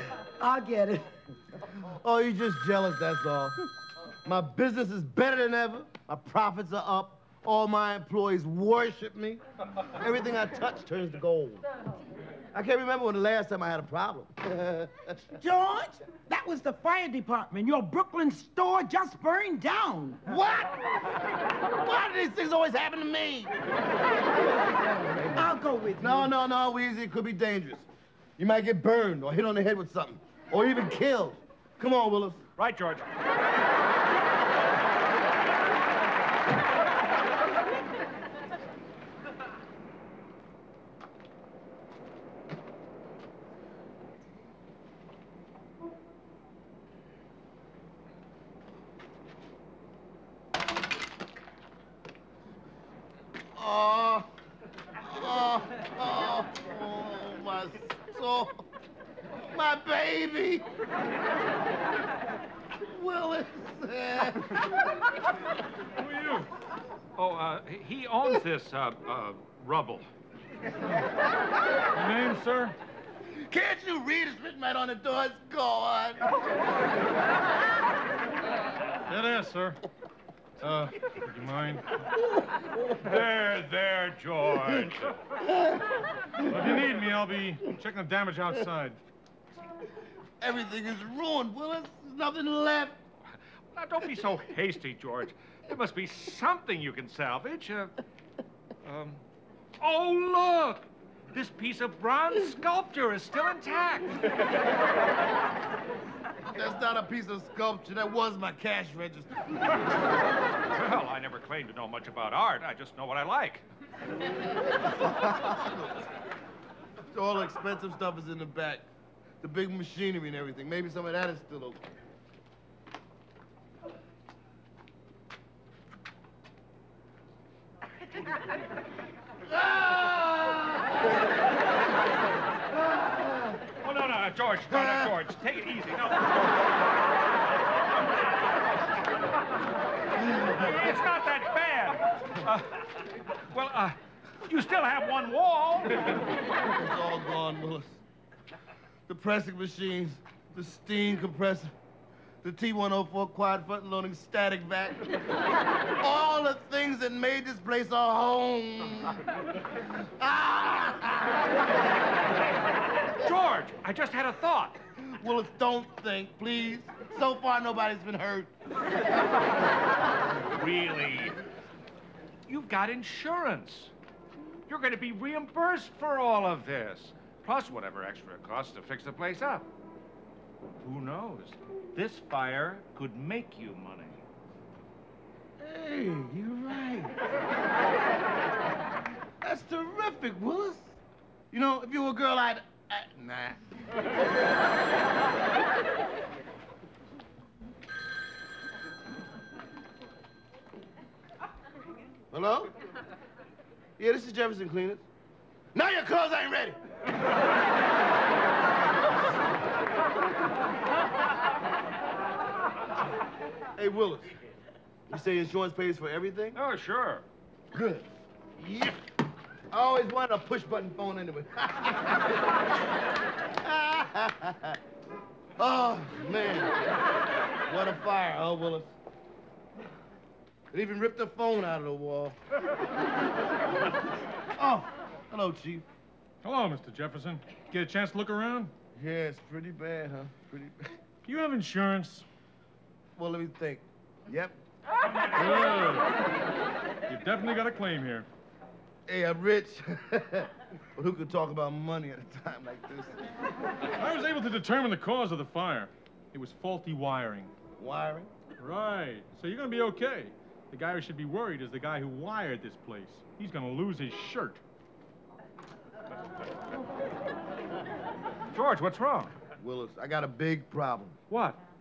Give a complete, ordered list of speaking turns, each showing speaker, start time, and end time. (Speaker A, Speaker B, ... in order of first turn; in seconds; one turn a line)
Speaker A: 0.4-1.1
Speaker B: 1.8-3.6
Speaker B: 4.2-9.4
Speaker B: 10.0-11.6
Speaker B: 12.5-15.3
Speaker A: 15.4-20.2
Speaker B: 20.2-23.5
Speaker B: 24.8-25.4
Speaker A: 25.3-26.3
Speaker B: 26.0-27.9
Speaker B: 28.4-32.4
Speaker C: 32.6-33.1
Speaker B: 53.5-54.3
Speaker B: 55.0-58.6
Speaker B: 59.3-60.7
Speaker B: 62.8-65.1
Speaker D: 66.2-66.5
Speaker C: 67.1-70.1
Speaker D: 71.9-72.8
Speaker B: 73.3-76.4
Speaker D: 79.1-79.8
Speaker D: 80.6-82.0
Speaker C: 82.9-85.2
Speaker D: 86.4-89.0
Speaker B: 90.4-93.0
Speaker C: 93.7-98.0
Speaker C: 98.8-99.2
Speaker C: 99.8-104.3
Speaker B: 106.5-109.8
Speaker C: 110.6-113.7
Speaker B: 114.7-116.1
Speaker B: 117.1-118.9
Speaker B: 119.4-121.8
Speaker B: 129.5-130.9
Speaker C: 133.7-136.5
Speaker C: 140.3-146.3
Speaker B: 146.6-148.0
Speaker B: 149.1-151.7
Speaker B: 152.4-155.1
Speaker B: 156.0-161.5
Speaker C: 163.1-164.8
Speaker B: 165.0-168.5
Speaker C: 170.4-171.4
Speaker C: 172.5-173.9
Speaker C: 174.7-179.7
Speaker C: 180.8-184.2
Speaker B: 185.6-187.2
Speaker B: 189.4-191.0
Speaker B: 191.5-193.6
Speaker B: 202.3-202.7
Speaker B: 204.0-205.0
Speaker B: 205.7-206.8
Speaker B: 213.8-214.3
Speaker B: 215.1-216.6
Speaker C: 216.5-217.2
Speaker B: 217.7-219.0
Speaker B: 219.7-222.5
Speaker B: 223.5-224.8
Speaker B: 225.6-226.8
Speaker B: 227.7-228.9
Speaker B: 230.7-232.3
Speaker B: 234.6-235.8
Speaker D: 236.4-238.7
Speaker B: 239.0-240.9
Speaker D: 241.2-242.2
Speaker B: 243.2-244.6
Speaker D: 245.3-246.2
Speaker D: 247.1-248.3
Speaker B: 249.1-253.2
Speaker D: 253.9-257.5
Speaker B: 257.8-258.3
Speaker D: 258.6-264.6
Speaker C: 268.5-269.4
Speaker B: 269.6-271.2
Speaker C: 271.3-271.6